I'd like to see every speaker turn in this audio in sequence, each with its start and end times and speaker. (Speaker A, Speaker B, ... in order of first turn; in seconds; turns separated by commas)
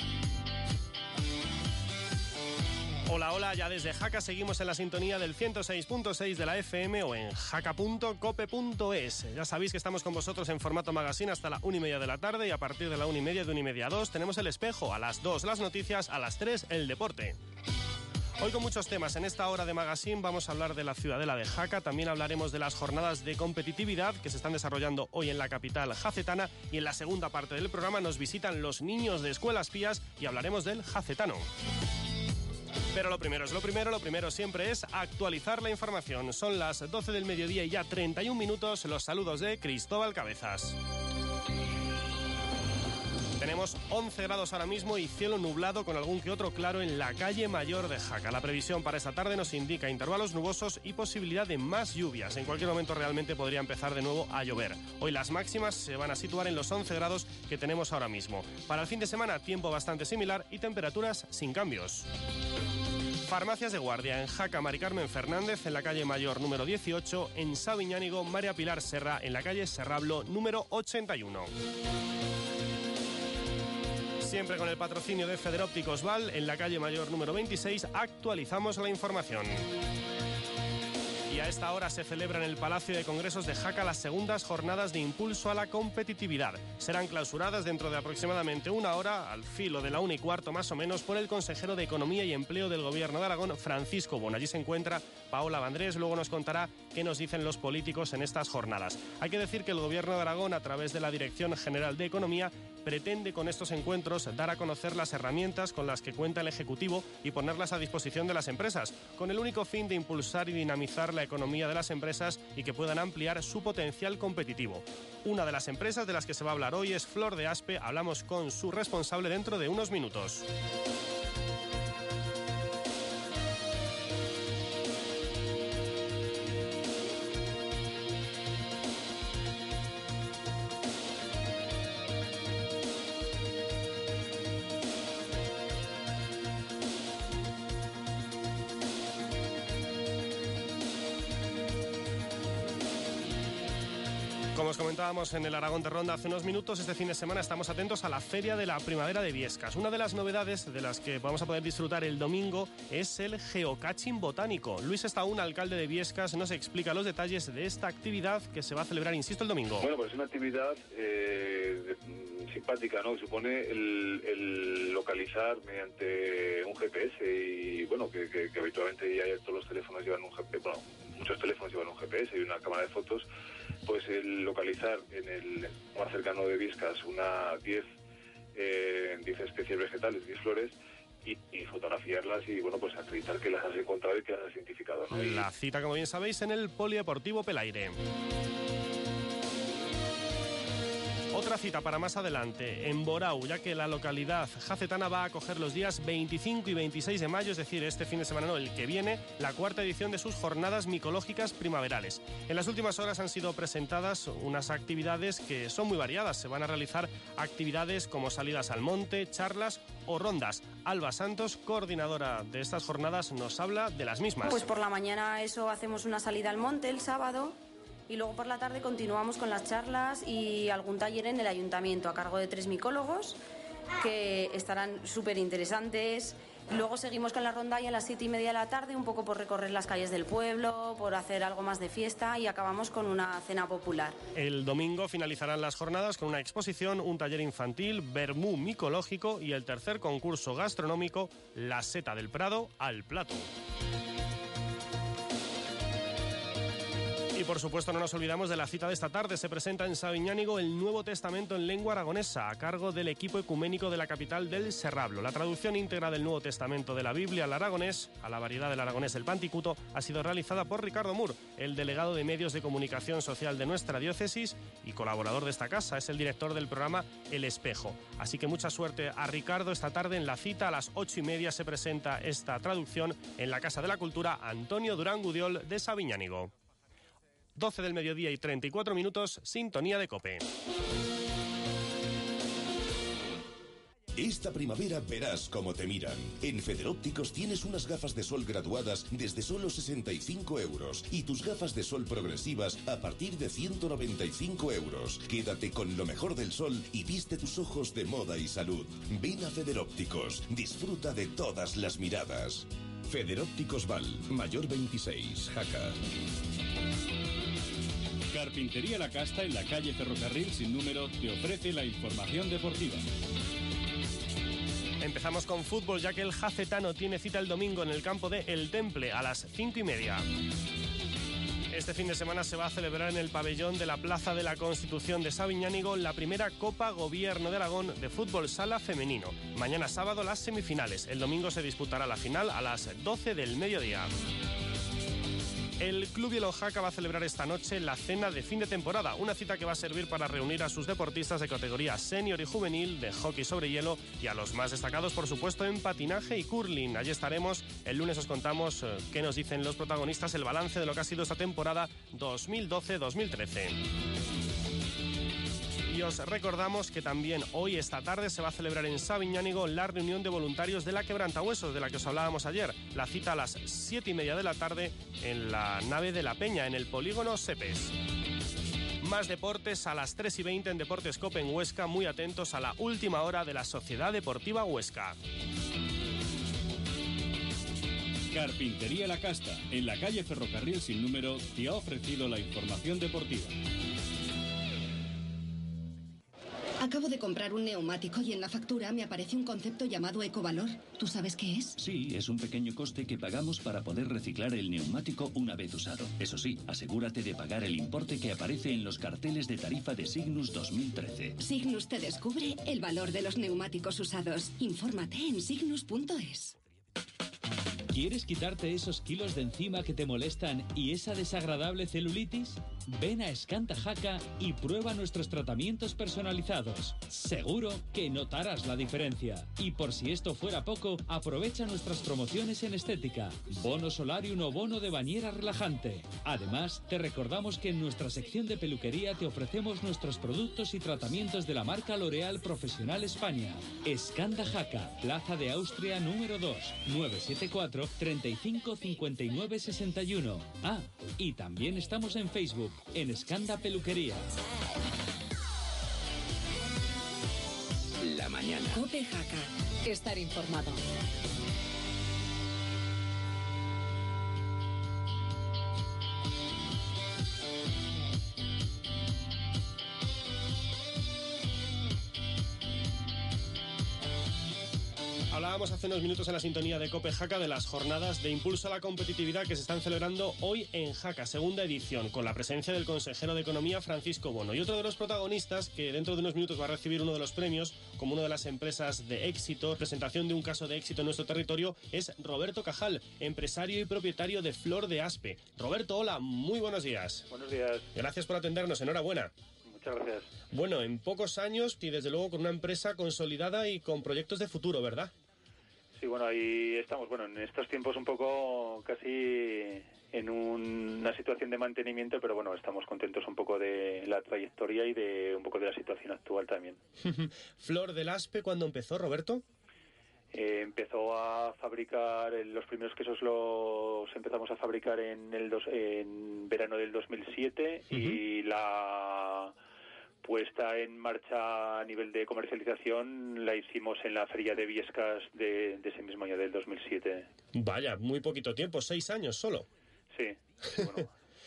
Speaker A: 3.1-17.4, Speaker A: 18.4-31.4, Speaker A: 32.9-40.8, Speaker A: 43.4-62.1, Speaker A: 63.2-71.5, Speaker A: 74.2-79.6, Speaker A: 81.3-120.5, Speaker A: 144.5-159.9, Speaker B: 159.8-173.2, Speaker B: 173.8-177.9, Speaker B: 178.5-185.5, Speaker A: 185.1-188.0, Speaker A: 191.3-214.6, Speaker C: 214.4-217.6, Speaker C: 218.1-223.4, Speaker C: 224.0-234.2, Speaker A: 234.3-243.5, Speaker A: 247.3-276.5, Speaker A: 277.6-280.4, Speaker D: 284.2-306.0, Speaker E: 308.3-313.0, Speaker A: 315.0-320.2, Speaker A: 321.7-334.1, Speaker A: 335.8-353.8, Speaker A: 355.9-367.9, Speaker A: 369.0-375.2, Speaker E: 378.3-383.5, Speaker F: 386.8-391.8, Speaker G: 391.8-401.3, Speaker F: 401.4-406.6, Speaker H: 407.9-444.3, Speaker G: 448.0-448.8, Speaker I: 448.7-450.8, Speaker A: 465.3-487.3, Speaker J: 487.3-487.9, Speaker A: 487.9-489.3, Speaker J: 489.7-490.3, Speaker A: 490.5-495.1, Speaker J: 496.0-506.8, Speaker A: 507.0-509.4, Speaker J: 510.3-519.5, Speaker A: 517.9-518.2, Speaker J: 520.2-527.3, Speaker A: 527.5-529.7, Speaker J: 530.1-531.1